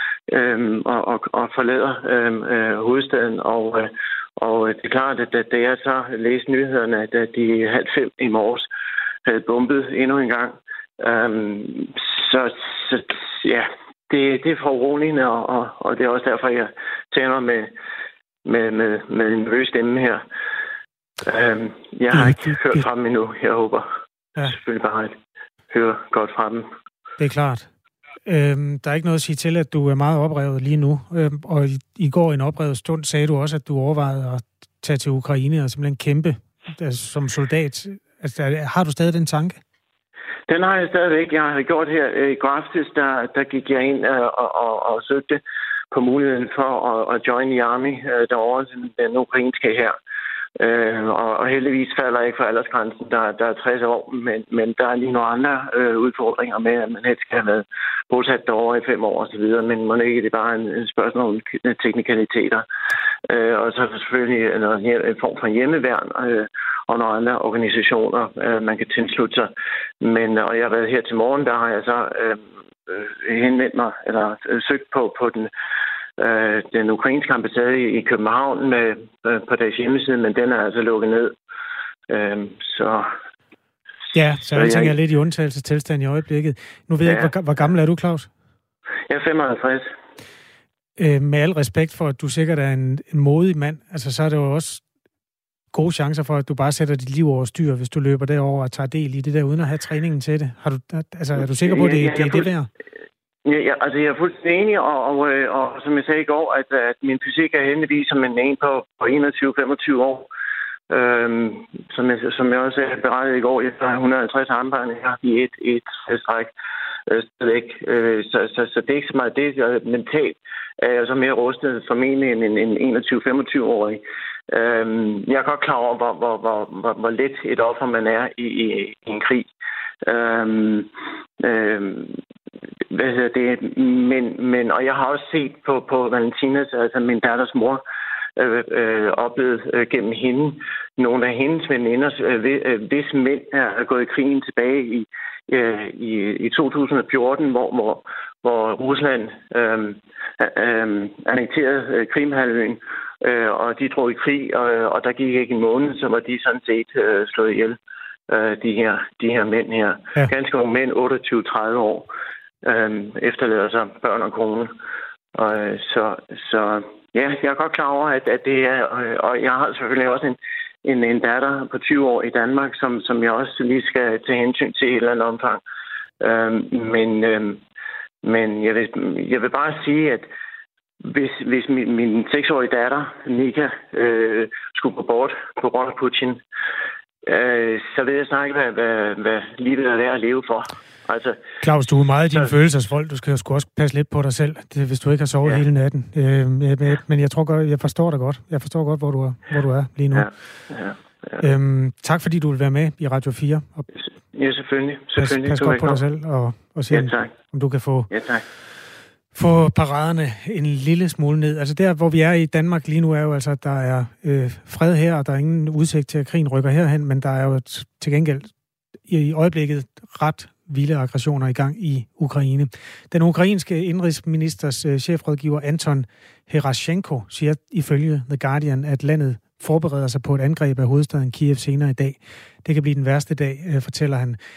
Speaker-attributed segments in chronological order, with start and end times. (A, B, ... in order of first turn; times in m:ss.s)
0:00.3-0:08.6 A
0:09.2-0:17.7 A
0:18.4-0:20.2 A
0:21.2-0:23.8 A
0:22.1-0:22.8 B
0:24.4-0:25.1 A
0:25.7-0:26.7 A
0:27.2-0:27.7 B
0:28.2-0:39.6 B
0:40.5-0:49.9 A
0:50.6-1:02.6 A
1:03.3-1:15.5 A
1:16.2-1:21.3 A
1:22.1-1:23.1 A
1:24.1-1:28.3 B
1:24.5-1:24.9 A
1:27.0-1:27.3 A
1:29.1-1:29.9 A
1:31.0-1:34.8 B
1:35.7-1:42.7 B
1:41.4-1:42.5 A
1:43.4-1:50.3 A
1:50.9-1:56.5 A
1:57.1-2:09.5 A
2:10.0-2:12.2 A
2:12.9-2:17.8 A
2:18.4-2:37.8 A
2:38.3-2:42.1 A
2:42.6-2:44.7 A
2:45.3-2:55.6 A
2:56.2-2:57.6 A
2:58.2-3:00.3 A
3:01.0-3:06.4 A
3:07.2-3:11.4 A
3:11.6-3:20.3 B
3:20.1-3:21.4 A
3:21.4-3:23.9 B
3:24.3-3:26.0 A
3:25.2-3:28.1 B
3:26.9-3:27.3 A
3:28.1-3:28.4 A
3:29.3-3:38.5 B
3:39.1-3:54.4 B